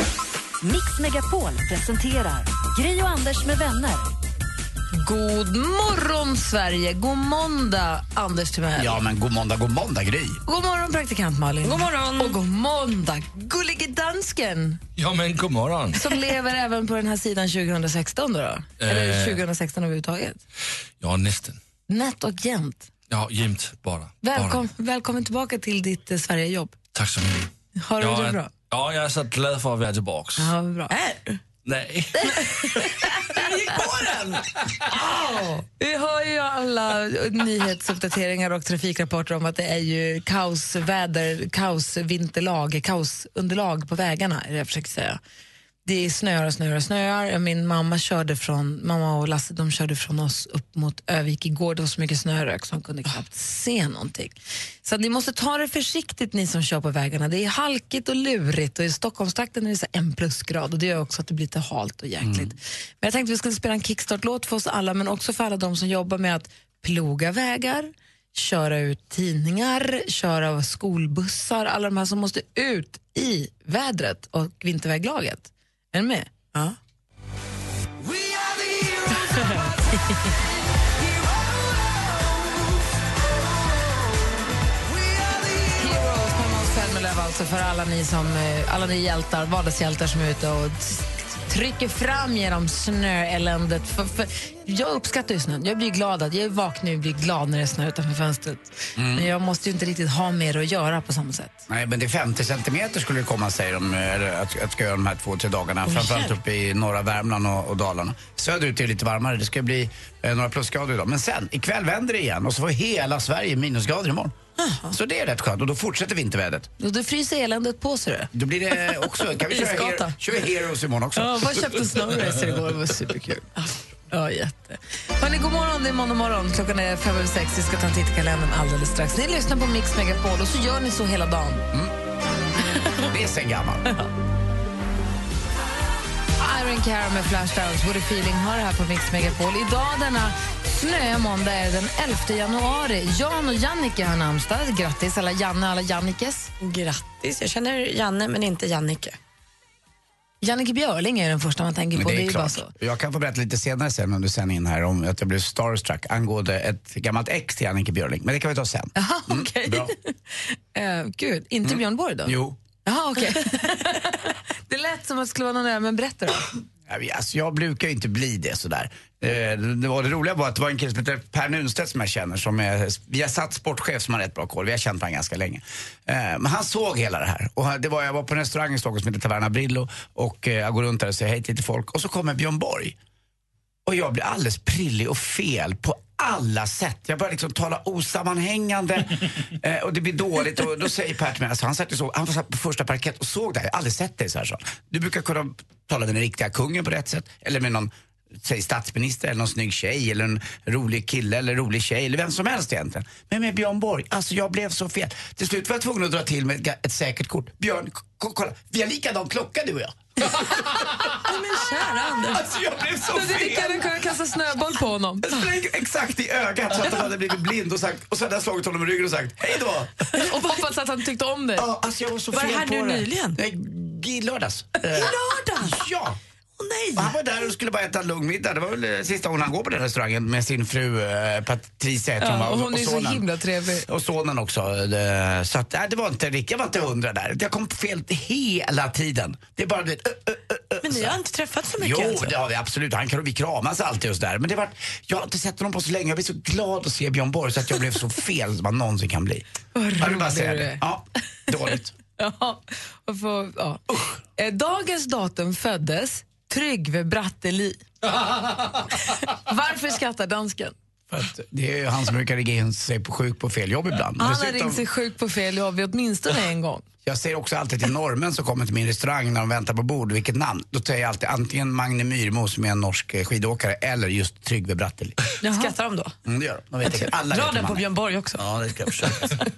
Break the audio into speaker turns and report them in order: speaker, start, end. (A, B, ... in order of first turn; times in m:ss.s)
0:00.6-0:04.1 A
0:04.9-0:09.0 B
0:08.8-0:10.4 C
0:10.4-0:14.8 B
0:11.6-0:12.4 D
0:15.0-0:16.0 E
0:15.9-0:20.4 B
0:18.8-0:19.4 E
0:21.0-0:21.6 E
0:21.9-0:22.9 B
0:23.1-0:24.7 E
0:24.2-0:26.8 B
0:26.9-0:27.5 E
0:27.8-0:28.5 B
0:28.0-0:30.5 E
0:30.4-0:30.9 B
0:30.9-0:31.4 D
0:31.6-0:32.8 E
0:32.2-0:33.5 B
0:33.9-0:34.4 D
0:34.9-0:35.6 D
0:35.8-0:45.2 B
0:45.8-1:16.3 B
1:02.2-1:02.5 C
1:25.7-1:41.6 B
1:39.0-1:39.3 C
1:41.7-1:54.4 C
1:45.9-1:46.3 D
1:54.6-1:54.9 D
1:54.9-1:56.7 C
1:56.8-1:58.3 B
1:58.3-2:01.8 C
1:59.5-2:00.1 D
2:01.2-2:03.5 B
2:04.1-2:11.6 B
2:13.1-2:13.9 C
2:16.4-2:26.5 B
2:26.6-2:29.2 D
2:30.4-2:32.7 B
2:31.9-2:39.9 C
2:38.9-2:46.5 B
2:41.6-2:42.6 C
2:46.9-3:03.0 C
3:03.8-3:30.4 C
3:31.2-3:32.5 D
3:32.3-3:33.9 C
3:33.1-3:35.3 B
3:35.2-3:40.1 C
3:40.2-3:41.7 B
3:40.2-3:40.6 D
3:41.6-3:46.2 C
3:42.3-3:43.4 D
3:44.9-3:45.8 D
3:46.6-3:47.2 D
3:47.0-3:53.2 C
3:52.2-3:53.9 B
3:53.8-4:01.2 C
4:00.8-4:02.3 D
4:01.8-4:09.4 C
4:09.7-4:10.8 B
4:10.0-4:11.9 C
4:12.2-4:17.9 B
4:13.9-4:14.2 C
4:19.0-4:20.7 B
4:21.1-4:24.8 C
4:24.2-4:26.8 B
4:27.0-4:35.2 C
4:35.4-4:35.7 B
4:35.4-4:36.1 D
4:36.2-4:37.8 C
4:36.9-4:38.4 D
4:38.4-4:39.3 C